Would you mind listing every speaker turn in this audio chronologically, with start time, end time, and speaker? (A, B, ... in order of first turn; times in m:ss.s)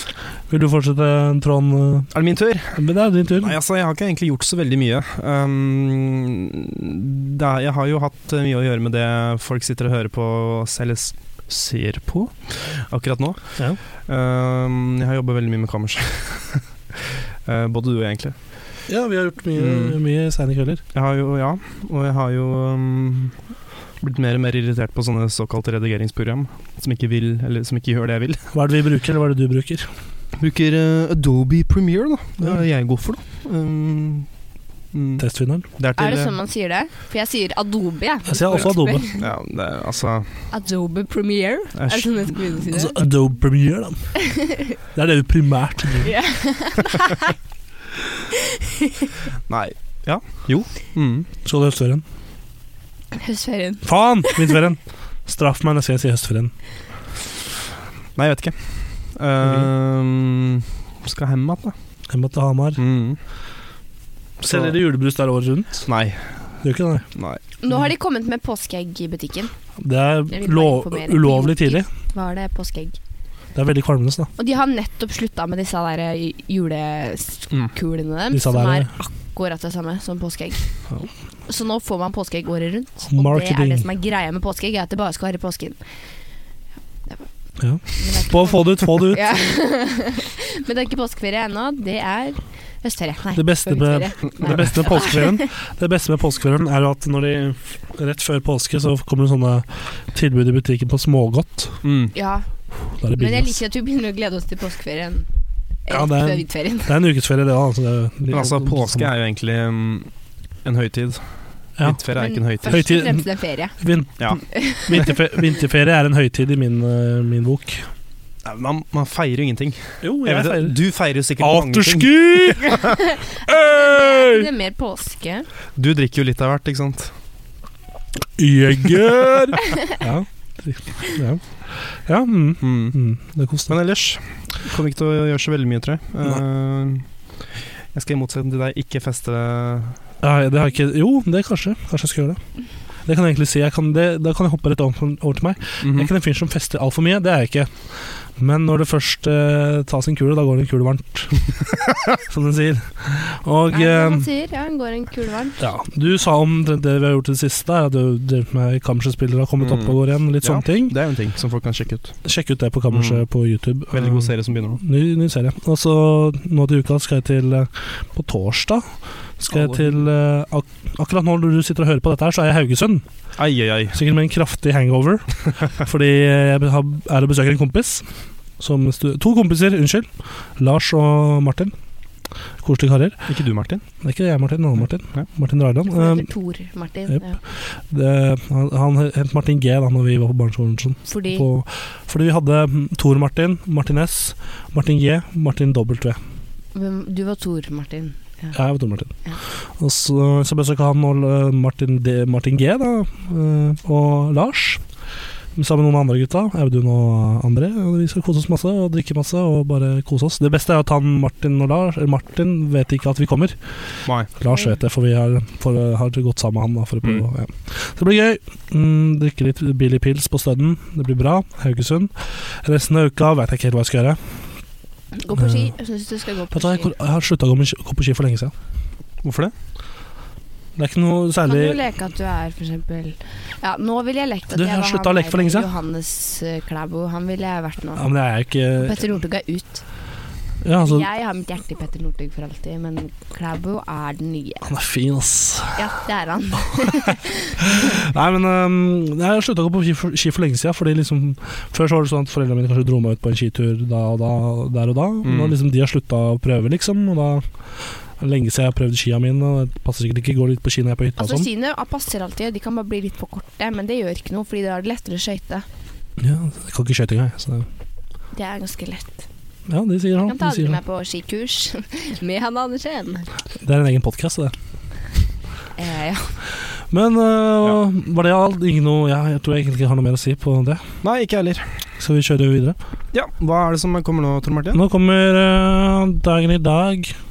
0:00.5-0:02.1 A
0:02.1-0:18.4 B
0:02.8-0:03.6 A
0:18.9-0:20.8 A
0:19.6-0:20.0 B
0:20.9-0:23.4 B
0:24.0-0:28.5 B
0:28.5-0:29.9 A
0:30.4-0:34.3 B
0:34.9-0:35.2 B
0:35.2-0:35.7 A
0:35.8-0:36.3 B
0:36.0-0:39.2 C
0:38.3-0:39.1 A
0:39.2-0:40.4 B
0:40.5-0:43.0 C
0:41.8-0:42.4 B
0:42.7-0:44.2 A
0:44.3-0:44.6 C
0:44.9-0:46.1 A
0:46.0-0:47.3 C
0:48.8-0:49.1 C
0:49.5-0:51.3 B
0:51.4-0:52.0 A
0:53.1-0:54.6 C
0:53.8-0:56.5 A
0:58.2-1:01.7 B
0:59.4-0:59.7 A
1:02.1-1:02.8 A
1:02.8-1:03.2 B
1:04.4-1:05.9 A
1:04.5-1:04.8 B
1:05.9-1:06.4 B
1:06.6-1:07.1 A
1:07.2-1:07.4 B
1:07.6-1:09.5 C
1:09.8-1:11.9 A
1:10.3-1:13.0 C
1:13.6-1:14.3 A
1:14.4-1:20.7 C
1:18.3-1:18.9 A
1:21.5-1:25.9 C
1:23.1-1:23.8 A
1:27.6-1:29.4 A
1:27.9-1:35.5 C
1:33.4-1:41.8 A
1:41.8-1:42.1 B
1:42.1-1:42.5 C
1:42.9-1:43.6 A
1:43.1-1:45.3 C
1:45.9-1:47.0 C
1:45.9-1:49.1 A
1:48.3-1:50.1 B
1:50.6-1:51.2 B
1:51.8-1:52.8 B
1:52.1-1:53.8 C
1:52.6-1:57.9 A
1:54.2-1:55.1 B
1:54.5-1:55.0 C
1:58.4-2:02.9 B
2:00.0-2:00.8 A
2:01.4-2:02.9 A
2:02.9-2:05.5 C
2:03.5-2:04.5 A
2:05.8-2:07.1 B
2:08.4-2:13.8 A
2:12.6-2:13.0 B
2:13.7-2:17.0 B
2:17.9-2:20.0 B
2:20.2-2:22.4 A
2:23.0-2:34.3 A
2:25.8-2:26.1 B
2:33.7-2:35.6 C
2:35.6-2:41.0 A
2:39.6-2:42.2 B
2:42.2-2:48.9 A
2:42.9-2:43.2 B
2:43.9-2:44.8 B
2:49.4-2:53.0 A
2:49.5-2:50.0 B
2:53.4-2:54.0 B
2:53.9-2:58.1 A
2:58.6-3:01.7 A
3:02.6-3:03.3 A
3:03.3-3:03.8 B
3:04.0-3:06.3 A
3:05.9-3:07.4 C
3:07.1-3:16.2 A
3:11.1-3:11.5 C
3:16.7-3:18.6 C
3:18.5-3:24.8 A
3:25.6-3:33.6 A
3:34.4-3:44.2 A
3:45.1-3:46.9 C
3:45.4-3:45.7 A
3:46.5-3:48.5 A
3:49.2-3:49.5 B
3:50.8-3:51.8 A
3:51.4-3:58.1 C
3:54.5-3:55.7 A
3:58.0-3:59.0 A
3:58.8-3:59.8 C
4:00.6-4:01.1 A
4:00.8-4:04.7 C
4:04.6-4:05.9 A
4:05.7-4:08.0 C
4:06.8-4:17.5 A
4:15.2-4:15.6 B
4:18.2-4:21.5 A
4:21.2-4:25.7 C
4:26.2-4:27.7 A
4:28.3-4:29.3 C
4:29.7-4:30.8 A
4:30.2-4:33.3 C
4:33.6-4:34.5 A
4:35.8-4:36.4 C
4:36.9-4:40.9 A
4:41.0-4:41.8 B
4:42.0-4:42.8 A
4:43.1-4:44.8 B
4:44.7-4:47.2 A